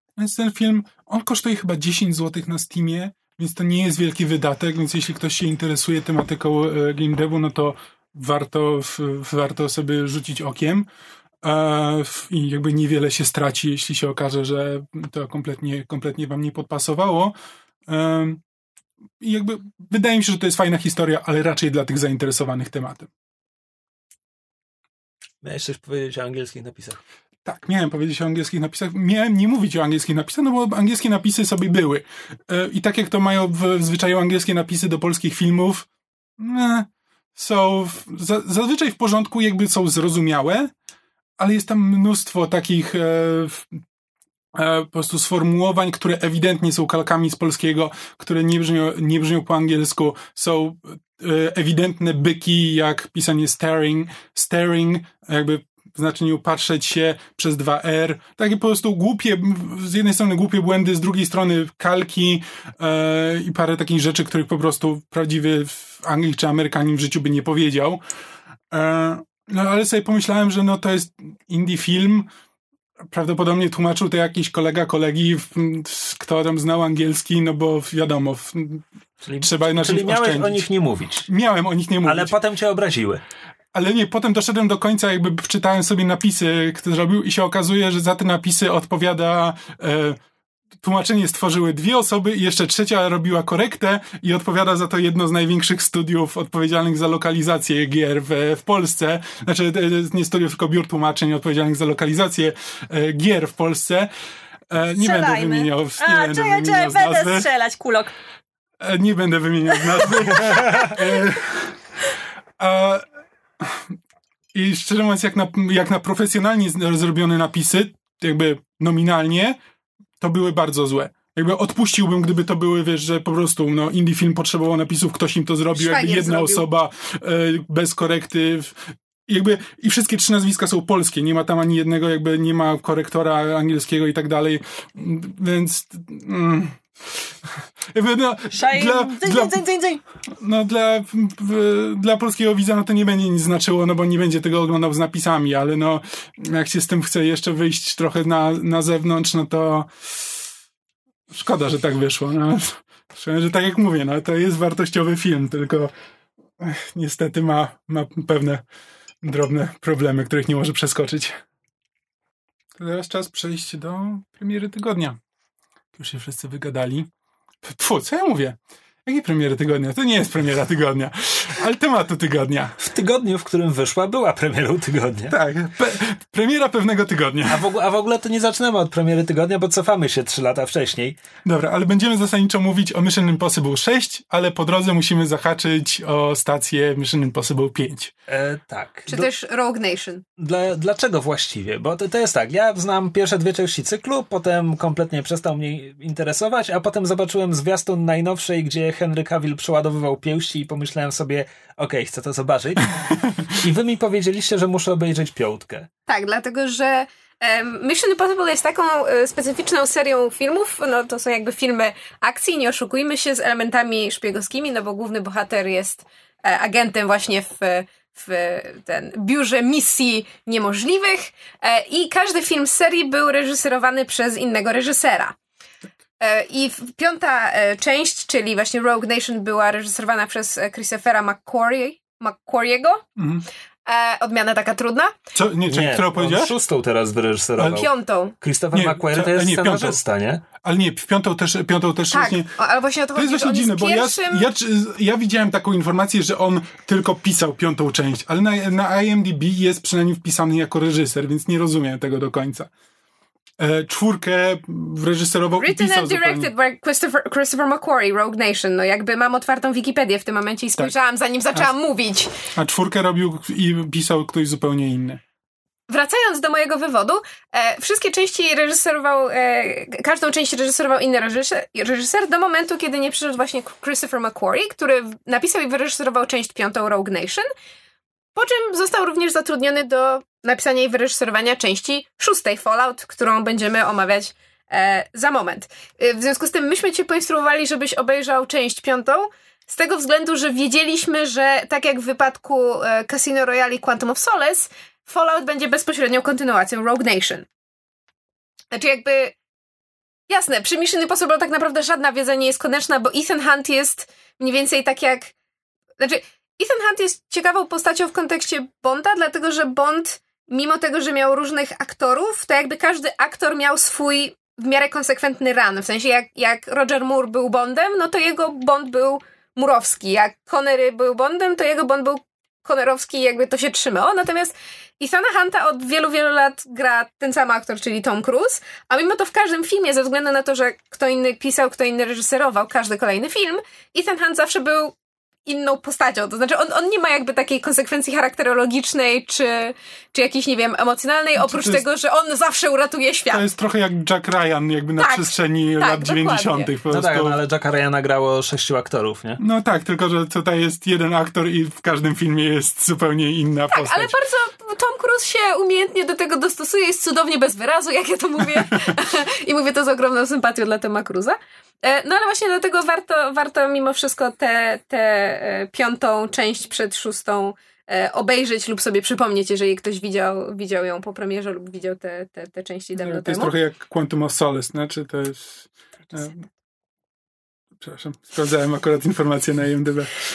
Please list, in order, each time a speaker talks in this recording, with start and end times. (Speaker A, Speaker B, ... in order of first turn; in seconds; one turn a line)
Speaker A: 0.2-10.9
Speaker A: 11.4-17.3
Speaker A: 17.9-18.4
Speaker A: 19.2-23.1
Speaker B: 25.4-27.0
Speaker A: 27.4-35.9
Speaker A: 36.4-40.7
Speaker A: 41.4-43.7
Speaker A: 44.5-68.0
Speaker A: 68.7-72.3
Speaker A: 73.1-78.8
Speaker B: 79.2-81.3
Speaker A: 79.4-80.6
Speaker A: 81.3-82.3
Speaker B: 82.0-83.2
Speaker A: 83.7-90.2
Speaker A: 90.8-104.1
Speaker A: 104.7-107.5
Speaker C: 104.9-108.1
Speaker A: 108.8-111.8
Speaker C: 110.3-111.0
Speaker A: 112.6-113.0
Speaker A: 113.6-113.9
Speaker A: 114.5-119.6
Speaker A: 120.2-137.3
Speaker D: 125.7-126.7
Speaker A: 137.9-139.6
Speaker C: 138.5-140.0
Speaker A: 140.4-150.4
Speaker A: 151.3-155.9
Speaker A: 156.6-158.6
Speaker A: 159.2-161.4
Speaker A: 162.8-165.2
Speaker A: 165.9-167.1
Speaker A: 167.6-172.8
Speaker B: 172.8-175.3
Speaker A: 175.3-177.6
Speaker B: 177.5-181.2
Speaker A: 181.4-188.1
Speaker B: 188.3-189.2
Speaker D: 189.1-190.2
Speaker B: 190.4-205.9
Speaker D: 206.1-225.3
Speaker D: 226.2-233.0
Speaker A: 233.2-233.5
Speaker D: 233.8-235.1
Speaker A: 235.3-236.5
Speaker B: 235.7-237.9
Speaker A: 237.6-237.8
Speaker D: 237.7-238.3
Speaker B: 238.4-240.4
Speaker A: 238.7-240.0
Speaker A: 240.6-242.6
Speaker D: 242.1-244.5
Speaker A: 243.1-252.7
Speaker A: 253.6-256.5
Speaker D: 255.6-262.3
Speaker A: 262.6-265.2
Speaker D: 265.9-277.5
Speaker D: 278.3-297.5
Speaker D: 298.7-299.3
Speaker D: 300.3-305.3
Speaker D: 306.0-334.9
Speaker D: 335.4-343.4
Speaker A: 341.3-341.8
Speaker A: 343.3-347.4
Speaker D: 345.0-346.7
Speaker B: 346.9-349.4
Speaker A: 349.4-354.1
Speaker D: 353.7-373.5
Speaker A: 372.9-376.4
Speaker A: 377.8-380.1